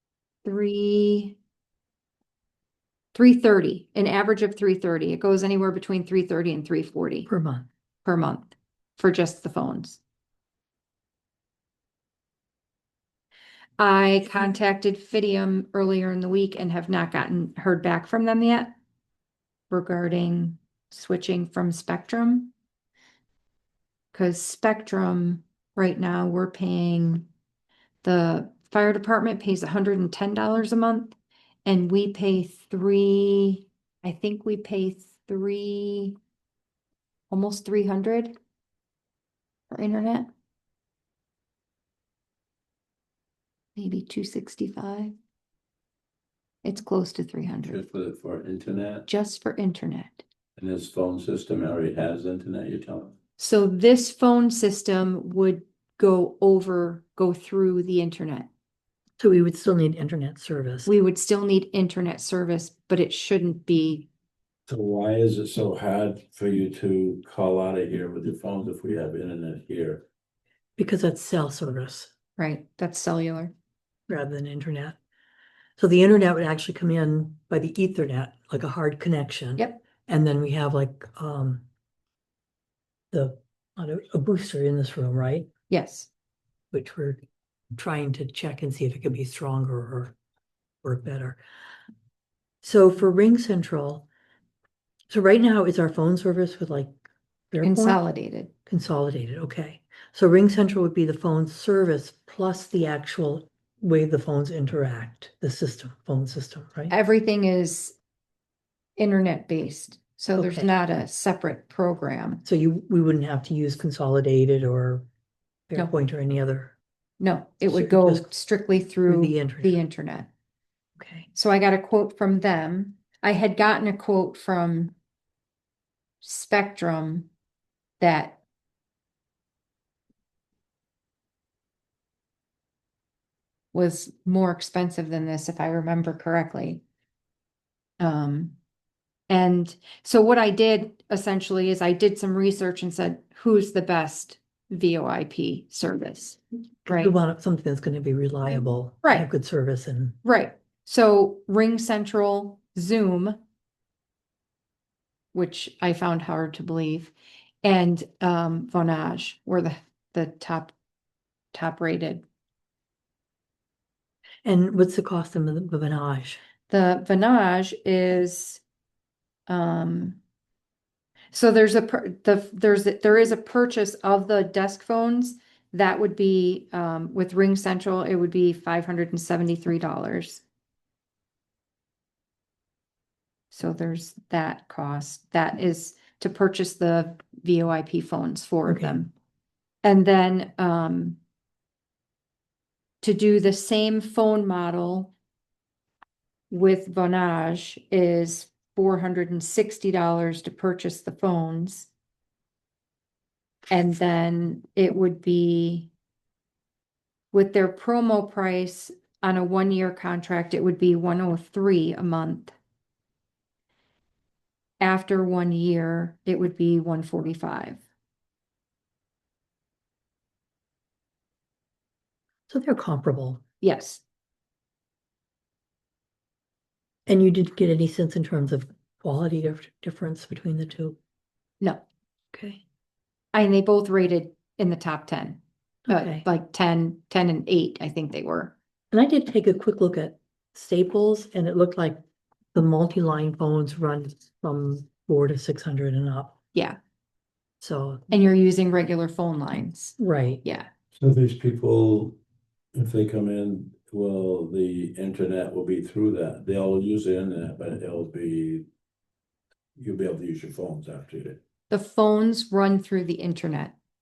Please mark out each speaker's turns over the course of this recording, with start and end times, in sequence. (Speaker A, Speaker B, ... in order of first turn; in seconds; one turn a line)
Speaker A: 0.4-1.4
Speaker A: 3.1-7.3
Speaker B: 7.3-7.7
Speaker A: 8.0-10.0
Speaker A: 13.8-18.8
Speaker A: 19.7-22.5
Speaker A: 24.1-27.2
Speaker A: 28.0-36.2
Speaker A: 37.3-38.4
Speaker A: 39.7-40.3
Speaker A: 43.8-45.1
Speaker A: 46.6-47.8
Speaker C: 47.6-49.1
Speaker A: 49.1-50.2
Speaker C: 50.6-53.1
Speaker A: 53.4-58.5
Speaker B: 59.2-60.9
Speaker A: 60.9-64.1
Speaker C: 64.7-70.0
Speaker B: 70.8-72.1
Speaker A: 72.4-73.5
Speaker B: 74.1-75.0
Speaker B: 75.8-81.6
Speaker B: 83.1-85.5
Speaker A: 85.7-86.1
Speaker B: 86.7-87.2
Speaker B: 87.7-90.1
Speaker B: 90.8-91.4
Speaker B: 92.6-94.1
Speaker B: 95.1-98.0
Speaker A: 97.6-98.5
Speaker B: 98.7-106.9
Speaker A: 106.9-108.0
Speaker A: 109.0-112.4
Speaker B: 110.3-110.7
Speaker B: 112.4-115.1
Speaker B: 115.7-116.8
Speaker A: 117.2-120.3
Speaker B: 117.7-118.3
Speaker B: 119.0-119.8
Speaker B: 121.0-121.3
Speaker A: 121.3-124.9
Speaker A: 126.2-127.3
Speaker A: 128.0-128.4
Speaker A: 133.7-136.8
Speaker A: 138.0-138.6
Speaker A: 139.3-147.1
Speaker B: 146.8-150.2
Speaker A: 150.2-153.4
Speaker A: 155.3-160.7
Speaker A: 161.5-162.2
Speaker B: 164.4-166.4
Speaker A: 166.7-168.6
Speaker A: 169.5-170.2
Speaker A: 171.3-180.4
Speaker A: 183.5-189.1
Speaker B: 188.7-189.0
Speaker A: 189.8-191.2
Speaker A: 193.0-195.1
Speaker A: 196.5-201.9
Speaker A: 203.7-205.9
Speaker A: 207.3-212.5
Speaker A: 214.8-217.8
Speaker B: 222.5-223.4
Speaker A: 223.6-224.0
Speaker B: 227.1-231.0
Speaker B: 232.3-232.6
Speaker A: 233.3-238.6
Speaker B: 235.9-236.2
Speaker B: 238.9-242.0
Speaker B: 242.5-246.4
Speaker B: 247.6-248.0
Speaker A: 248.1-250.7
Speaker B: 250.0-250.4
Speaker C: 250.9-252.2
Speaker C: 252.7-258.6
Speaker C: 259.8-261.4
Speaker A: 261.7-263.7